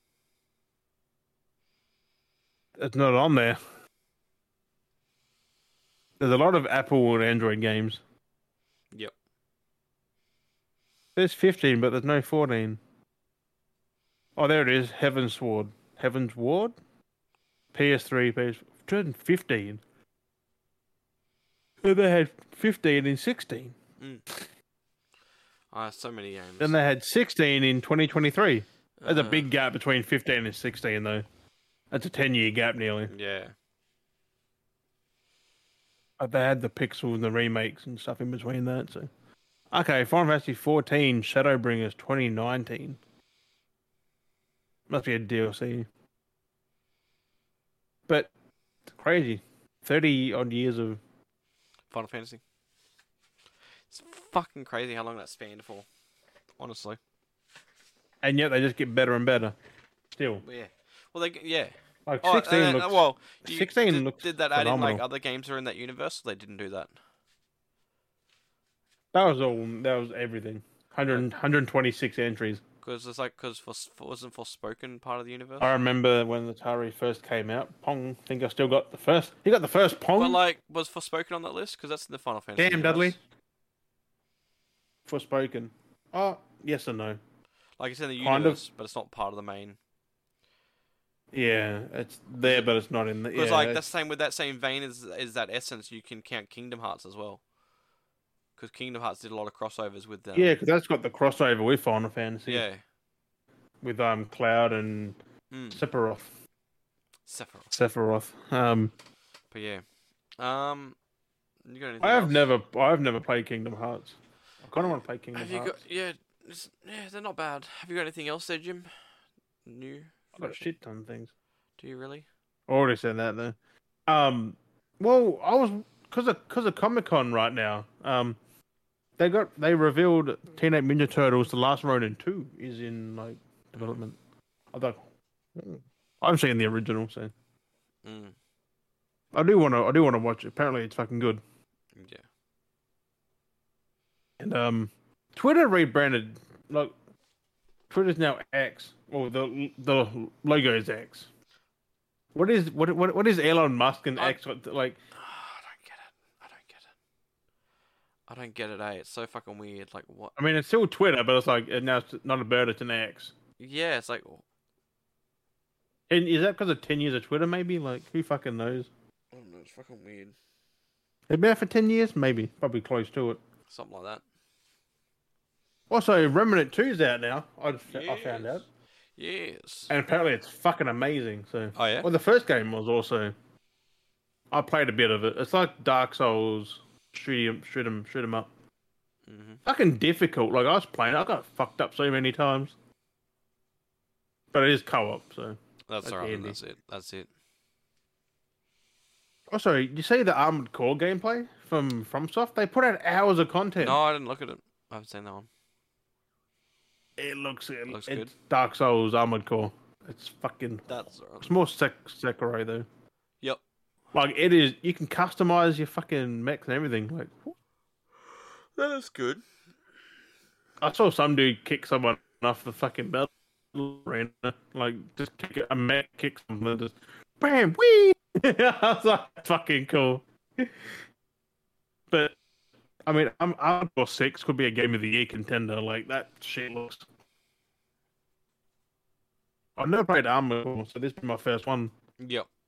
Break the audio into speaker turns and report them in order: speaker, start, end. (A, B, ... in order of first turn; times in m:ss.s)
0:02.8-0:03.6 A
0:06.2-0:08.0 A
0:11.2-0:12.8 A
0:14.4-0:16.7 A
0:17.7-0:19.8 A
0:21.8-0:23.8 A
0:25.7-0:26.8 B
0:26.6-0:31.2 A
0:29.0-0:29.5 B
0:31.9-0:33.1 A
0:33.1-0:33.5 B
0:36.2-0:39.1 A
0:39.7-0:43.0 A
0:44.9-0:45.9 A
0:48.9-0:51.0 A
0:51.9-0:52.4 B
0:53.9-0:55.9 B
0:56.6-0:57.0 B
0:58.2-0:59.5 A
1:00.1-1:00.4 A
1:00.4-1:06.9 B
1:02.1-1:05.0 A
1:09.1-1:12.6 A
1:12.8-1:15.7 B
1:15.6-1:20.4 A
1:20.2-1:23.2 B
1:22.6-1:23.2 A
1:25.0-1:27.2 A
1:27.8-1:29.8 B
1:28.2-1:28.6 A
1:31.3-1:33.8 A
1:32.4-1:32.7 B
1:33.3-1:37.4 B
1:38.6-1:40.6 B
1:40.3-1:42.6 A
1:42.5-1:42.8 B
1:43.8-1:45.2 A
1:45.5-1:45.8 B
1:45.7-1:46.3 A
1:47.2-1:47.7 B
1:47.7-1:48.9 A
1:49.5-1:49.8 B
1:50.4-1:51.0 B
1:51.6-1:52.5 B
1:52.0-1:55.8 A
1:55.3-1:58.9 B
1:59.6-2:00.6 B
2:00.4-2:01.3 A
2:01.8-2:02.2 B
2:02.7-2:08.4 A
2:09.2-2:14.2 A
2:14.7-2:15.0 A
2:15.5-2:17.3 A
2:18.0-2:18.3 B
2:19.3-2:21.4 A
2:21.9-2:22.2 B
2:24.4-2:26.9 A
2:27.9-2:31.3 A
2:32.3-2:35.0 A
2:35.1-2:36.9 B
2:38.3-2:40.3 B
2:40.4-2:43.3 A
2:43.6-2:44.4 B
2:46.1-2:48.9 A
2:49.3-2:50.3 B
2:51.3-2:53.4 A
2:53.7-2:54.2 B
2:55.9-2:58.6 A
2:57.9-2:58.6 B
2:59.2-2:59.9 B
2:59.9-3:03.3 A
3:01.7-3:02.1 B
3:04.5-3:08.5 A
3:09.3-3:09.6 B
3:09.6-3:12.7 A
3:14.5-3:16.6 A
3:15.9-3:17.3 B
3:19.5-3:24.0 A
3:23.8-3:25.5 B
3:27.2-3:30.9 A
3:27.9-3:28.3 B
3:30.9-3:31.5 B
3:31.4-3:32.9 A
3:34.1-3:37.5 A
3:38.8-3:39.4 B
3:40.8-3:50.7 A
3:52.1-3:52.4 A
3:53.0-3:57.0 A
3:59.8-4:01.9 A
4:02.2-4:02.5 B